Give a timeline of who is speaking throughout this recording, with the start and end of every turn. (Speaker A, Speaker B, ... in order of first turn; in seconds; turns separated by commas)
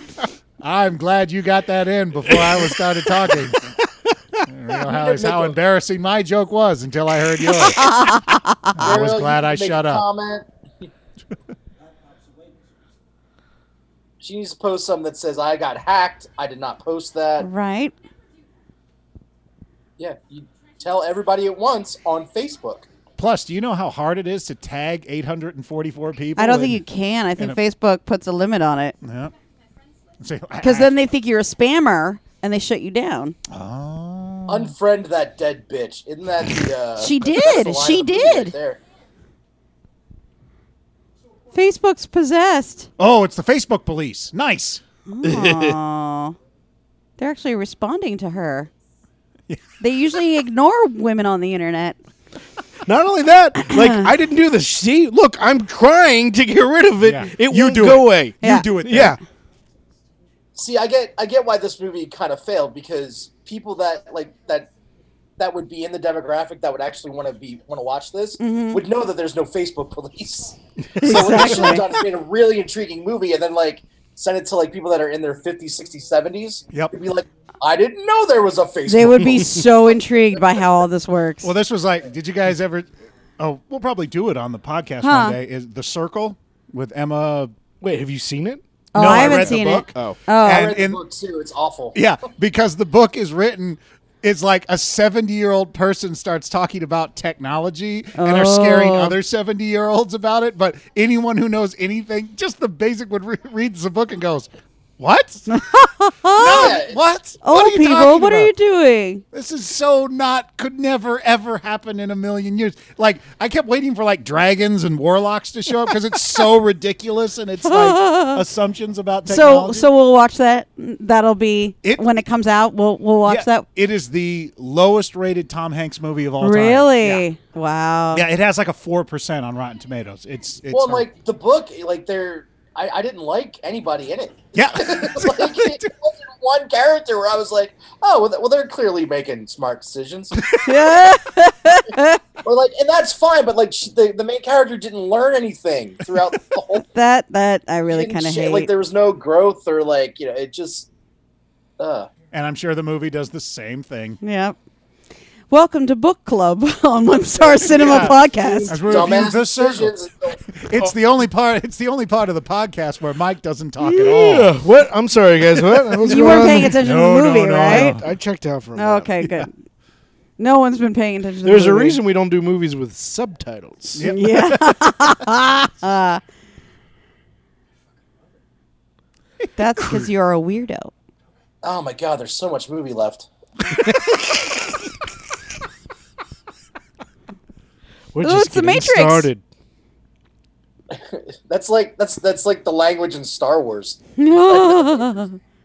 Speaker A: 0.6-3.6, Speaker B: 2.3-3.7, Speaker A: 4.5-8.0, Speaker C: 4.8-5.6, Speaker D: 7.6-8.8, Speaker A: 8.8-10.1, Speaker C: 8.8-10.5, Speaker C: 14.2-17.5, Speaker D: 17.4-17.9, Speaker C: 20.0-22.9, Speaker A: 23.2-26.8, Speaker D: 26.4-29.0, Speaker A: 29.0-29.3, Speaker A: 30.2-31.0, Speaker D: 30.6-33.4, Speaker A: 33.5-34.7, Speaker C: 34.5-38.8, Speaker D: 37.0-38.5, Speaker D: 41.5-42.9, Speaker A: 43.0-44.8, Speaker D: 45.1-46.4, Speaker B: 45.2-45.8, Speaker D: 47.2-48.7, Speaker D: 49.8-52.0, Speaker B: 52.9-59.2, Speaker D: 53.6-54.1, Speaker A: 57.0-59.2, Speaker D: 58.4-58.7, Speaker C: 60.5-64.7, Speaker C: 65.4-80.0, Speaker D: 68.4-68.8, Speaker B: 70.9-71.8, Speaker D: 71.0-71.9, Speaker D: 78.9-81.5, Speaker B: 79.2-79.5, Speaker A: 81.4-87.5, Speaker D: 85.0-85.4, Speaker B: 87.8-90.2, Speaker D: 88.9-90.7, Speaker A: 88.9-91.0, Speaker C: 90.5-92.0, Speaker A: 91.9-105.5, Speaker D: 98.2-99.1, Speaker D: 105.5-106.8, Speaker A: 106.3-108.5, Speaker C: 106.4-107.0, Speaker D: 107.4-109.2, Speaker A: 109.3-119.9, Speaker D: 117.6-118.4, Speaker D: 119.3-123.7, Speaker A: 123.3-127.3, Speaker D: 126.4-128.2, Speaker A: 128.1-131.1, Speaker C: 130.7-140.5, Speaker A: 134.5-135.9, Speaker D: 140.6-142.2, Speaker C: 142.4-146.9, Speaker D: 146.9-148.7, Speaker C: 147.9-150.9, Speaker C: 151.8-152.1, Speaker A: 152.3-154.2, Speaker D: 154.2-154.6, Speaker D: 155.5-159.2, Speaker C: 157.2-160.4, Speaker A: 157.7-159.9, Speaker A: 160.5-164.5, Speaker B: 163.8-166.8, Speaker A: 165.9-168.1, Speaker D: 166.1-168.0, Speaker B: 167.7-169.5, Speaker D: 168.7-169.5, Speaker D: 170.4-172.0, Speaker B: 171.4-174.1, Speaker A: 173.9-174.6, Speaker D: 174.0-176.2, Speaker D: 179.6-180.9, Speaker C: 181.6-183.3, Speaker B: 183.8-184.2, Speaker B: 188.1-189.4, Speaker D: 188.2-189.3, Speaker C: 190.9-195.3, Speaker D: 194.2-195.3